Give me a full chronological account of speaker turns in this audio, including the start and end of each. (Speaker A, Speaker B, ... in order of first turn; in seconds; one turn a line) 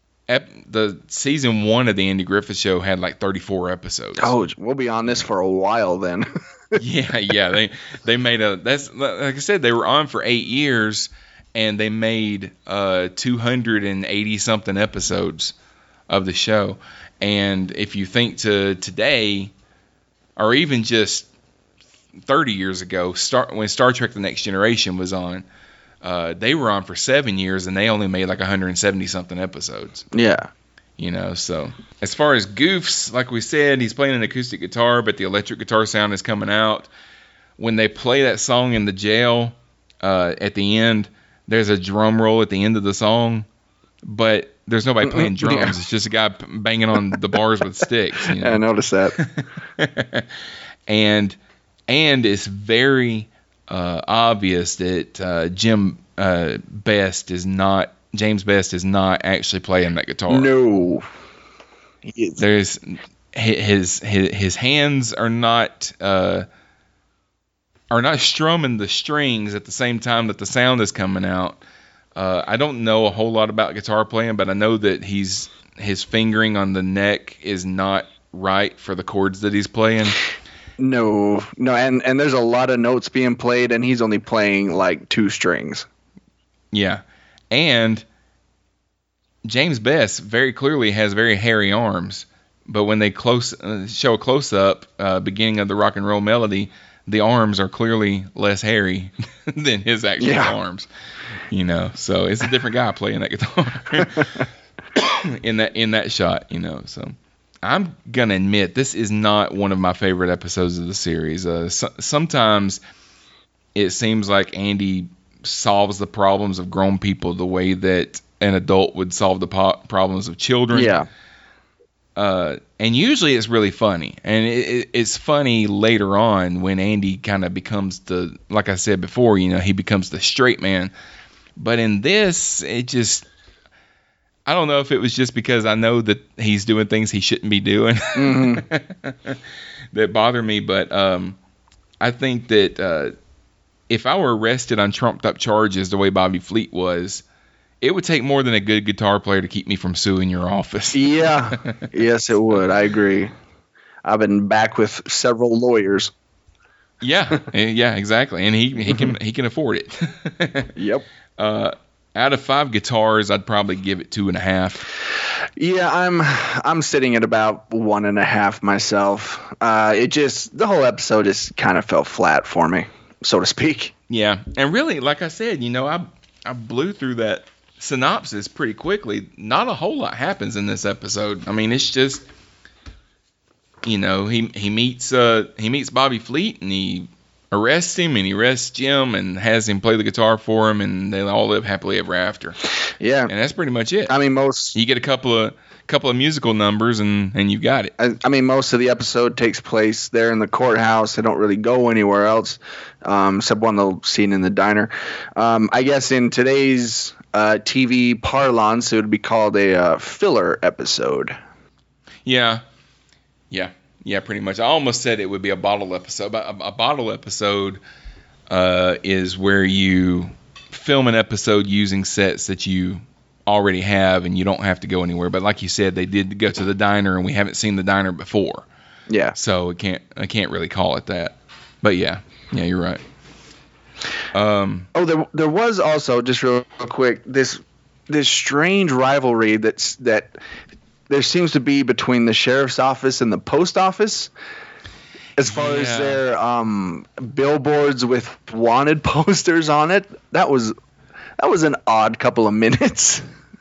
Speaker A: 0.3-4.3
Speaker B: 4.2-6.8
Speaker A: 6.8-15.5
Speaker A: 16.1-19.5
Speaker A: 20.4-21.3
Speaker A: 22.3-25.5
Speaker A: 26.0-30.1
Speaker B: 30.1-30.5
Speaker A: 31.0-36.9
Speaker A: 37.6-43.5
Speaker A: 44.0-48.6
Speaker B: 45.0-45.8
Speaker B: 47.0-47.3
Speaker B: 48.2-49.2
Speaker A: 49.2-50.3
Speaker A: 50.9-51.4
Speaker A: 51.9-60.5
Speaker B: 60.3-61.1
Speaker B: 62.0-62.4
Speaker A: 62.4-66.5
Speaker A: 67.9-71.6
Speaker A: 72.2-80.2
Speaker B: 80.8-85.9
Speaker A: 86.7-88.0
Speaker A: 89.5-100.9
Speaker B: 100.2-100.5
Speaker A: 101.5-104.4
Speaker B: 104.0-104.4
Speaker A: 105.0-112.8
Speaker A: 113.8-121.0
Speaker B: 120.7-121.1
Speaker A: 122.2-130.9
Speaker A: 131.6-133.2
Speaker A: 134.5-139.4
Speaker B: 138.2-138.7
Speaker A: 139.9-141.4
Speaker A: 142.0-143.1
Speaker A: 143.9-147.2
Speaker A: 147.8-151.8
Speaker B: 150.9-153.3
Speaker B: 154.1-156.1
Speaker A: 157.0-160.7
Speaker B: 158.9-159.1
Speaker B: 160.8-161.1
Speaker A: 161.4-164.9
Speaker B: 165.6-173.9
Speaker A: 174.1-182.2
Speaker A: 183.8-192.6
Speaker B: 193.0-193.3
Speaker A: 193.3-194.2
Speaker B: 194.1-194.8
Speaker A: 194.7-197.9
Speaker B: 198.0-211.4
Speaker A: 212.3-212.6
Speaker A: 213.5-217.8
Speaker A: 218.5-228.7
Speaker B: 229.1-229.3
Speaker A: 229.3-233.0
Speaker A: 234.3-234.9
Speaker B: 234.9-240.3
Speaker B: 241.1-244.3
Speaker B: 245.4-250.8
Speaker A: 245.4-246.2
Speaker B: 251.4-253.2